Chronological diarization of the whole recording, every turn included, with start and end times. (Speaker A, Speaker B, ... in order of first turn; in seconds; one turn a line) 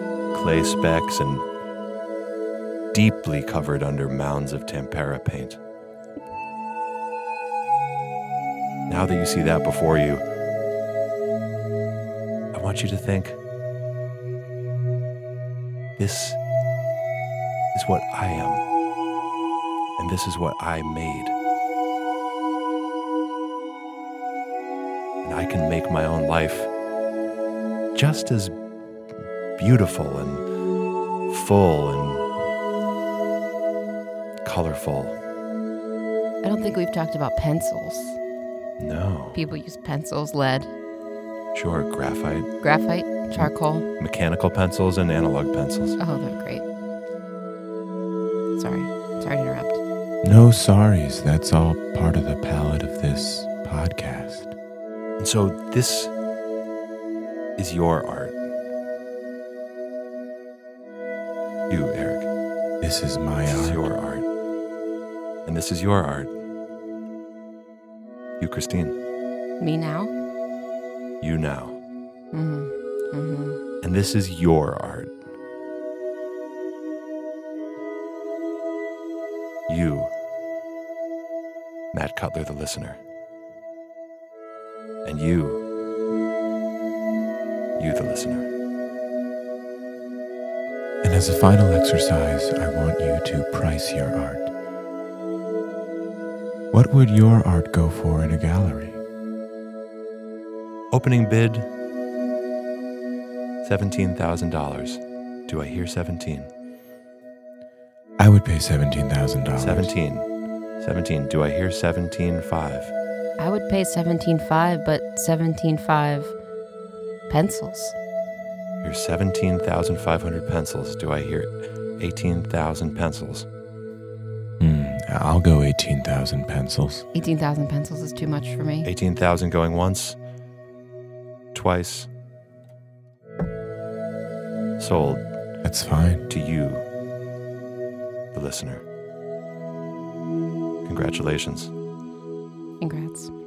Speaker A: 0.3-1.4
Speaker A: 2.9-5.6
Speaker A: 8.9-10.2
Speaker A: 12.5-13.4
Speaker A: 16.0-16.4
Speaker A: 17.7-18.6
Speaker A: 20.0-21.4
Speaker A: 25.2-26.7
Speaker A: 27.9-28.5
Speaker A: 29.6-30.4
Speaker A: 31.3-32.3
Speaker A: 34.4-35.2
Speaker B: 36.4-38.2
Speaker A: 38.8-39.4
Speaker B: 39.3-40.7
Speaker A: 41.5-42.5
Speaker B: 42.6-43.9
Speaker A: 44.0-46.0
Speaker B: 46.0-46.6
Speaker B: 48.5-49.8
Speaker C: 50.2-54.5
Speaker A: 55.2-56.1
Speaker A: 57.6-58.4
Speaker A: 61.7-62.3
Speaker C: 62.8-63.9
Speaker A: 63.5-64.2
Speaker A: 65.4-66.3
Speaker A: 68.4-69.0
Speaker B: 69.6-70.1
Speaker A: 71.2-71.8
Speaker B: 72.3-73.6
Speaker A: 73.8-75.1
Speaker A: 79.7-80.1
Speaker A: 81.9-83.0
Speaker A: 85.0-85.6
Speaker A: 87.8-88.5
Speaker C: 91.0-94.5
Speaker C: 96.7-99.0
Speaker A: 100.9-101.7
Speaker A: 103.6-106.5
Speaker C: 108.2-109.9
Speaker A: 109.6-110.3
Speaker A: 110.8-112.9
Speaker B: 113.4-116.3
Speaker B: 117.3-118.0
Speaker A: 118.8-123.5
Speaker C: 124.6-127.0
Speaker B: 127.1-128.9
Speaker A: 128.8-130.2
Speaker A: 131.5-132.1
Speaker A: 134.8-135.2
Speaker C: 135.6-136.3
Speaker A: 136.3-136.8
Speaker A: 138.3-138.8
Speaker A: 140.8-141.7
Speaker B: 142.8-143.3